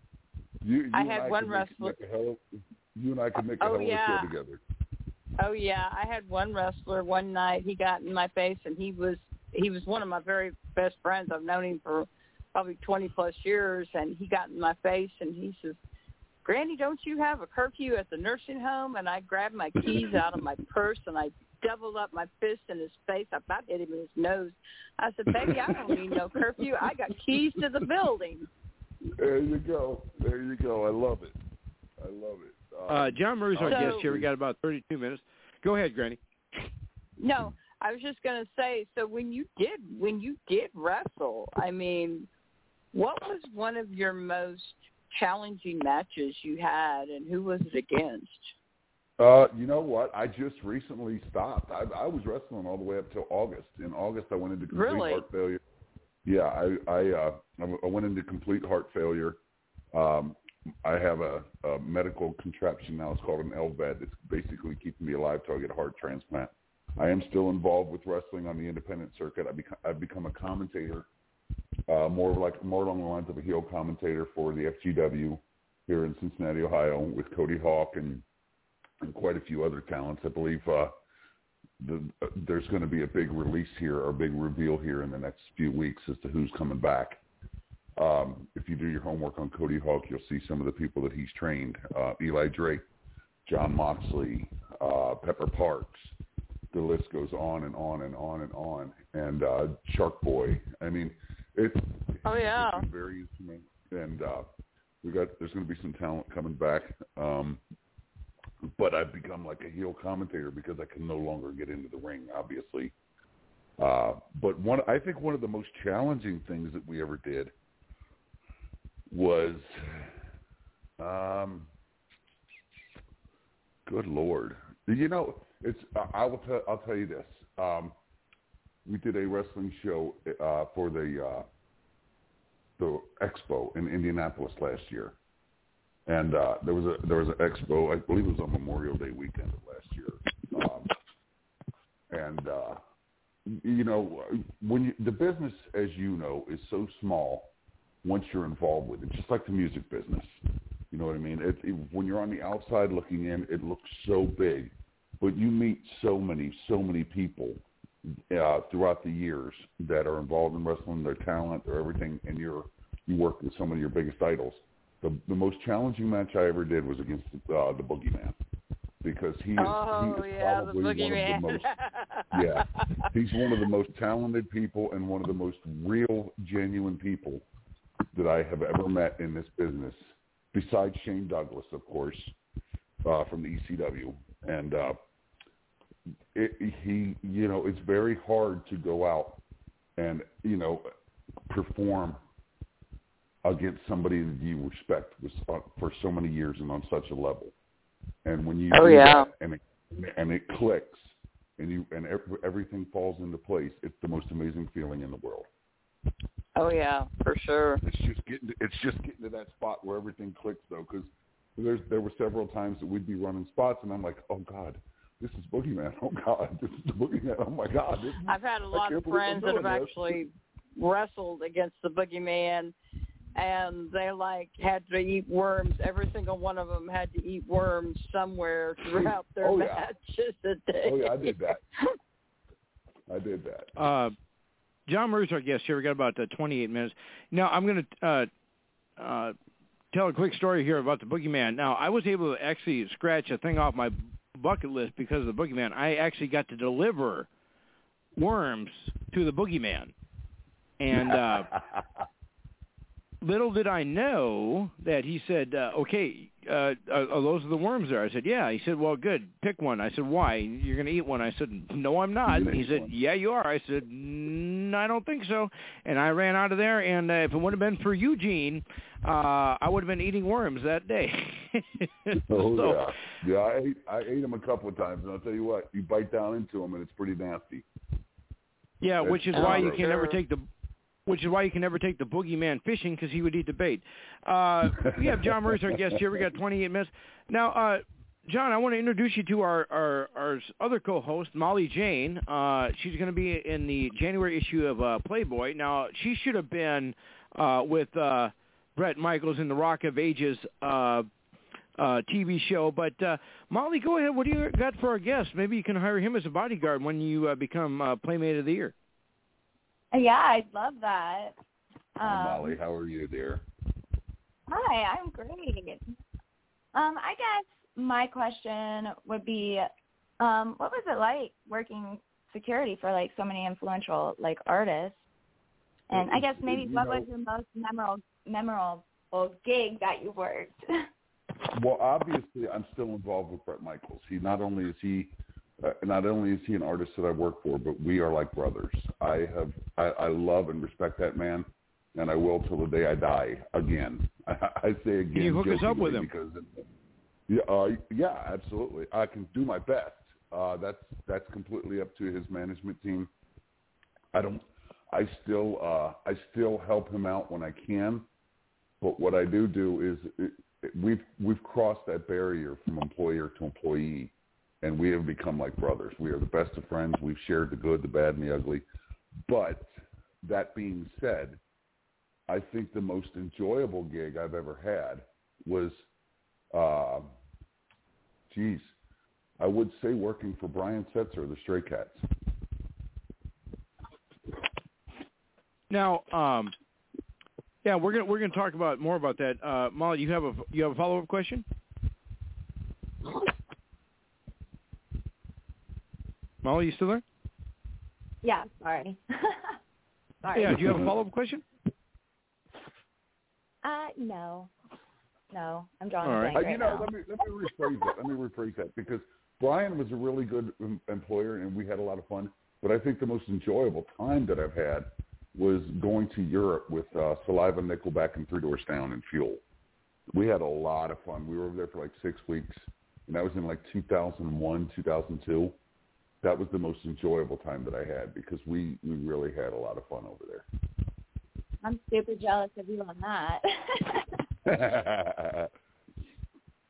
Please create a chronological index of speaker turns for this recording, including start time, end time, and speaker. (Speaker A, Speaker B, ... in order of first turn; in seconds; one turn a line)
Speaker A: 0.6-2.4
Speaker B: 0.9-2.0
Speaker A: 3.0-4.6
Speaker B: 3.6-4.3
Speaker B: 5.4-15.8
Speaker B: 16.4-28.5
Speaker A: 19.8-20.2
Speaker A: 25.3-26.6
Speaker A: 27.4-27.7
Speaker A: 29.1-31.4
Speaker A: 32.0-34.3
Speaker C: 32.9-36.2
Speaker B: 33.6-34.1
Speaker B: 37.2-42.3
Speaker B: 42.9-48.5
Speaker A: 49.2-55.6
Speaker B: 54.7-55.2
Speaker A: 56.3-59.4
Speaker A: 59.9-71.1
Speaker A: 71.9-78.2
Speaker A: 79.0-80.9
Speaker A: 81.8-87.2
Speaker A: 88.0-92.8
Speaker A: 93.5-96.1
Speaker A: 96.7-104.5
Speaker B: 102.2-102.9
Speaker A: 105.0-107.6
Speaker A: 108.8-112.9
Speaker A: 113.8-117.5
Speaker A: 119.1-120.1
Speaker A: 121.0-121.7
Speaker A: 123.9-127.9
Speaker A: 128.9-131.5
Speaker A: 132.8-135.2
Speaker A: 136.1-140.9
Speaker A: 142.1-142.8
Speaker A: 143.5-147.5
Speaker A: 148.0-150.3
Speaker A: 150.9-157.6
Speaker A: 158.3-168.4
Speaker A: 169.0-171.7
Speaker B: 169.6-173.6
Speaker A: 172.3-177.4
Speaker A: 178.1-182.3
Speaker A: 183.0-185.0
Speaker A: 186.3-189.4
Speaker A: 190.0-190.9
Speaker A: 191.5-192.2
Speaker A: 193.4-197.5
Speaker A: 198.2-205.5
Speaker B: 198.7-199.3
Speaker B: 206.6-207.8
Speaker A: 207.8-220.2
Speaker B: 218.2-222.7
Speaker B: 223.3-231.8
Speaker A: 228.8-229.9
Speaker A: 230.8-231.6
Speaker A: 233.1-233.7
Speaker C: 233.8-234.2
Speaker C: 234.9-238.3
Speaker C: 239.0-239.3
Speaker C: 239.9-247.3
Speaker C: 248.2-249.9
Speaker C: 250.8-251.5
Speaker A: 250.9-251.8
Speaker C: 253.2-272.9
Speaker A: 262.3-262.9
Speaker A: 272.3-277.6
Speaker C: 278.8-280.5
Speaker A: 279.0-279.9
Speaker B: 279.3-280.2
Speaker C: 281.1-301.1
Speaker A: 284.8-286.0
Speaker C: 301.8-308.7
Speaker D: 309.9-311.4
Speaker D: 312.0-312.6
Speaker A: 312.0-313.4
Speaker D: 314.5-315.8
Speaker D: 316.8-319.6
Speaker D: 320.2-324.9
Speaker A: 325.9-327.1
Speaker D: 325.9-330.6
Speaker A: 331.5-346.6
Speaker C: 345.1-346.1
Speaker A: 347.3-353.1
Speaker A: 354.1-358.1
Speaker A: 358.8-368.6
Speaker A: 369.3-369.7
Speaker A: 370.2-371.4
Speaker A: 372.3-375.8
Speaker A: 376.5-377.1
Speaker A: 378.3-378.7
Speaker A: 379.4-382.0
Speaker C: 385.7-386.5
Speaker C: 387.6-391.4
Speaker C: 396.4-397.0
Speaker D: 398.2-399.6
Speaker C: 400.4-401.4
Speaker A: 400.6-400.9
Speaker D: 403.6-404.5
Speaker D: 405.3-406.9
Speaker C: 406.0-406.4
Speaker A: 406.3-419.4
Speaker A: 420.1-425.6
Speaker A: 426.2-430.5
Speaker D: 431.6-434.0
Speaker A: 434.5-435.5